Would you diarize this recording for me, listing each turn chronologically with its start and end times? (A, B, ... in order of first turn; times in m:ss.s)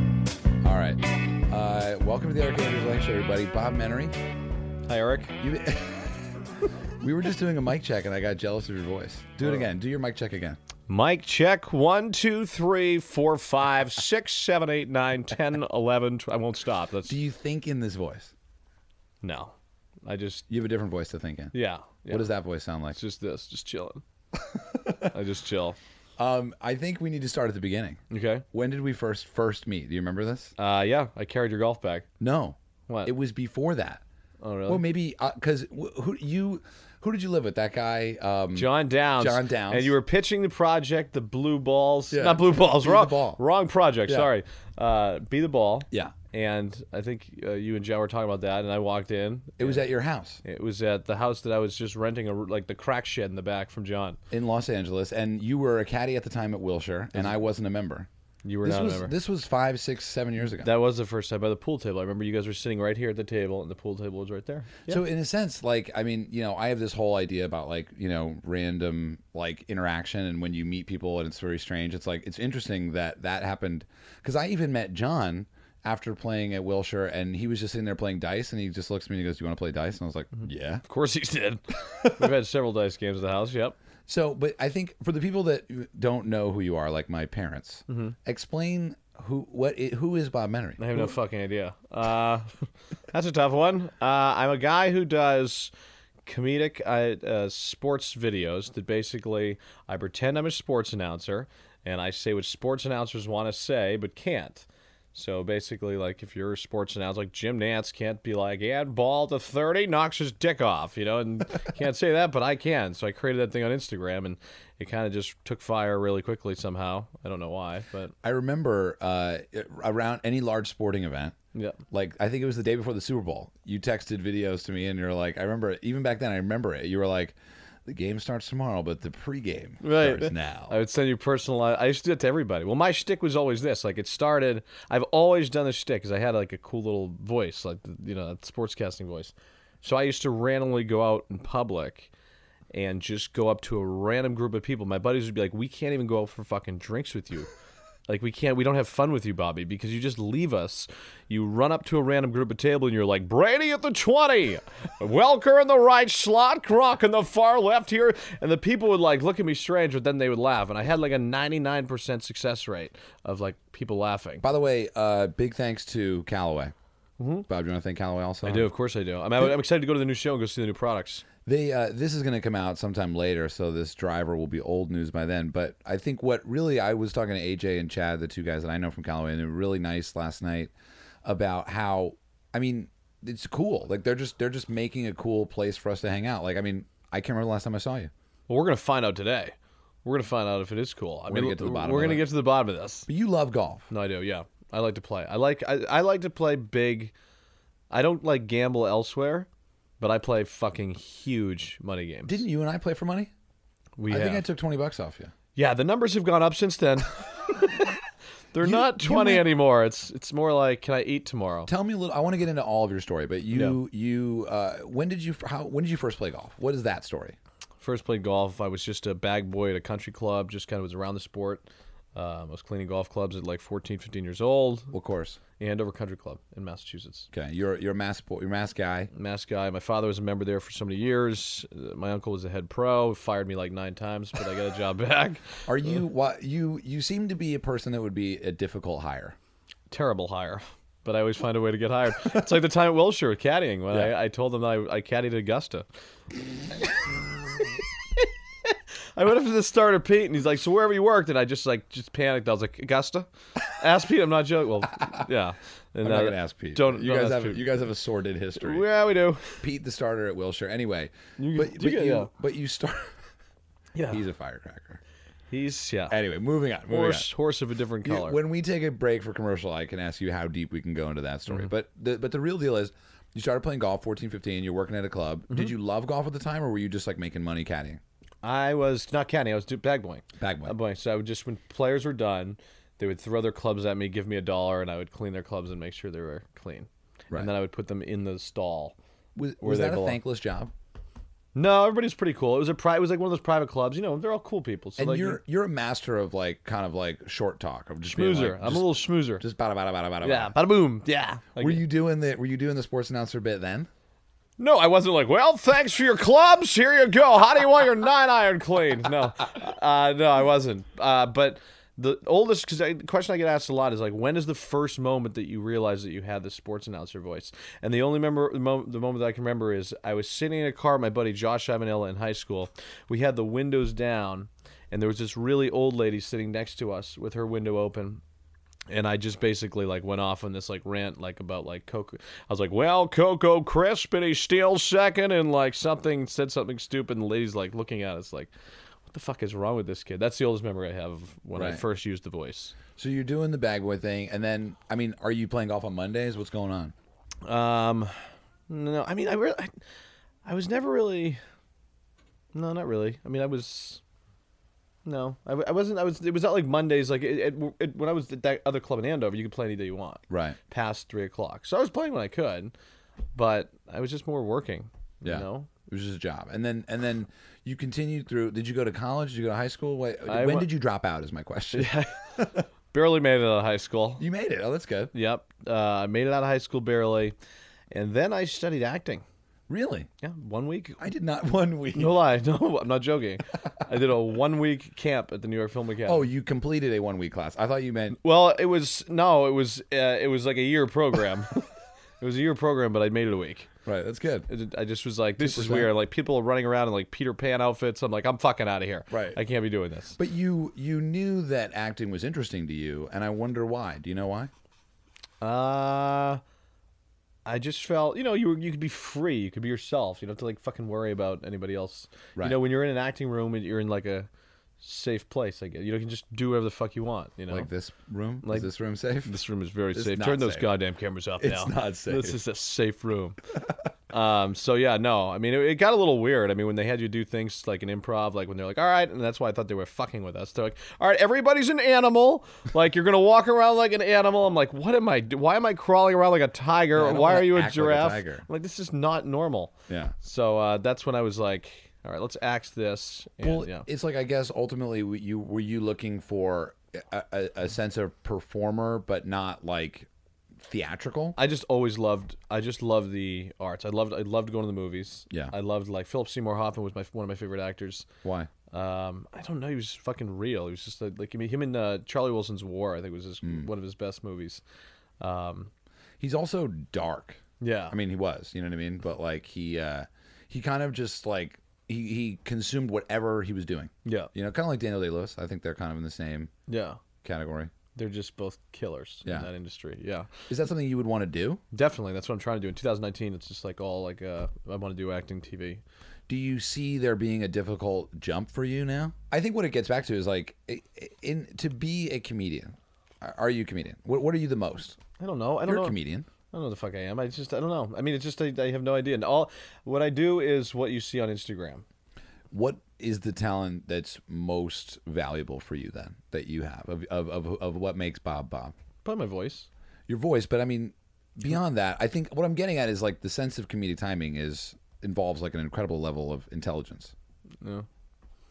0:00.6-0:04.2 A
0:04.9-0:05.4 B
0:05.4-0:06.5 A
0:07.0-0:10.6 A
0:09.4-0:09.7 B
0:10.9-0:17.2 B
0:17.1-0:18.3 A
0:19.2-0:19.6 B
0:20.1-0:20.5 B
0:20.5-0:21.5 A
0:21.5-0:22.3 B
0:22.1-0:23.0 A
0:22.9-0:24.0 B
0:24.6-0:25.0 A
0:25.1-0:25.8 B
0:26.2-0:28.0 A
0:28.1-0:28.4 B
0:28.5-0:30.5 A
0:30.6-0:32.1 B
0:32.2-0:34.0 A
0:34.4-0:34.8 B
0:34.7-0:39.9 A
0:38.6-0:49.9 B
0:42.1-0:43.4 A
0:49.6-0:50.4 A
0:50.4-0:54.2 B
0:54.3-0:58.1 A
0:58.4-0:59.1 B
0:58.6-1:00.7 A
1:00.6-1:05.0 B
1:04.9-1:20.8 A
1:20.4-1:23.8 B
1:21.8-1:22.4 A
1:24.1-1:31.0 A
1:27.9-1:28.2 B
1:30.8-1:35.7 B
1:36.3-1:58.1 B
1:58.2-2:01.4 A
2:01.5-2:01.8 B
2:01.9-2:10.8 A
2:09.8-2:22.1 B
2:22.7-2:27.5 B
2:28.1-2:44.4 B
2:44.4-2:46.7 A
2:47.2-2:47.5 B
2:47.5-2:48.7 A
2:48.4-2:51.2 B
2:51.5-3:00.7 A
3:01.2-3:08.1 A
3:08.5-3:13.1 B
3:11.3-3:12.2 A
3:13.1-3:13.9 A
3:13.9-3:17.1 B
3:17.9-3:19.5 B
3:20.0-3:22.4 B
3:22.3-3:23.3 A
3:24.0-3:24.5 B
3:24.1-3:25.3 A
3:25.6-3:28.0 B
3:28.5-3:31.7 B
3:28.6-3:29.5 A
3:31.7-3:37.4 A
3:33.5-3:33.8 B
3:37.8-3:41.6 B
3:42.2-3:44.9 B
3:44.9-3:45.4 A
3:45.6-3:47.3 B
3:47.3-3:49.1 A
3:49.1-3:55.7 B
3:55.7-3:59.4 A
3:59.9-4:05.9 B
4:07.6-4:17.7 B
4:16.0-4:18.9 A
4:18.6-4:19.6 B
4:19.6-4:23.2 A
4:21.4-4:22.3 B
4:24.0-4:24.2 B
4:24.1-4:25.0 A
4:25.5-4:26.2 B
4:26.1-4:27.3 A
4:26.9-4:28.4 B
4:28.0-4:38.0 A
4:38.4-4:49.0 B
4:40.4-4:40.8 A
4:49.4-4:50.7 A
4:49.6-4:50.2 B
4:51.6-4:55.4 B
4:55.0-5:00.6 A
4:58.1-4:59.4 B
5:00.2-5:01.8 B
5:01.6-5:03.9 A
5:04.6-5:28.2 B
5:28.9-5:38.5 B
5:39.1-5:42.8 B
5:41.6-5:41.8 A
5:43.0-5:46.9 A
5:47.4-5:49.8 B
5:50.4-5:51.4 B
5:52.5-5:54.0 B
5:55.0-6:02.7 B
6:00.3-6:00.6 A
6:03.4-6:05.7 B
6:05.2-6:12.6 A
6:10.3-6:10.7 B
6:11.7-6:12.3 B
6:12.9-6:14.2 B
6:14.2-6:15.1 A
6:15.1-6:17.4 B
6:17.9-6:19.2 B
6:19.7-6:20.1 A
6:20.2-6:21.0 B
6:21.0-6:22.2 A
6:22.0-6:26.3 B
6:26.0-6:28.2 A
6:28.2-6:33.7 B
6:33.8-6:34.5 A
6:34.5-6:40.2 B
6:35.4-6:35.9 A
6:39.1-6:39.4 A
6:40.2-6:44.5 A
6:45.4-6:46.4 B
6:47.4-6:54.3 B
6:54.8-6:57.7 B
6:57.5-6:59.4 A
6:58.4-6:58.7 B
6:59.2-7:03.4 B
6:59.9-7:00.7 A
7:01.4-7:02.4 A
7:04.1-7:23.9 B
7:16.9-7:18.5 A
7:19.9-7:20.1 A
7:23.4-7:31.4 A
7:31.4-7:38.1 B
7:38.2-7:38.5 A
7:38.7-7:44.6 B
7:45.2-7:45.7 B
7:46.2-7:56.5 A
7:47.6-7:48.0 B
7:54.0-7:54.3 B
7:56.7-7:57.0 B
7:57.2-7:57.7 A
7:58.0-8:00.3 B
8:00.5-8:01.6 A
8:01.7-8:05.8 B
8:06.3-8:15.0 A
8:15.2-8:16.0 B
8:15.6-8:16.3 A
8:16.5-8:21.8 B
8:22.5-8:28.7 A
8:29.0-8:29.7 B
8:30.1-8:37.1 A
8:37.6-8:37.9 B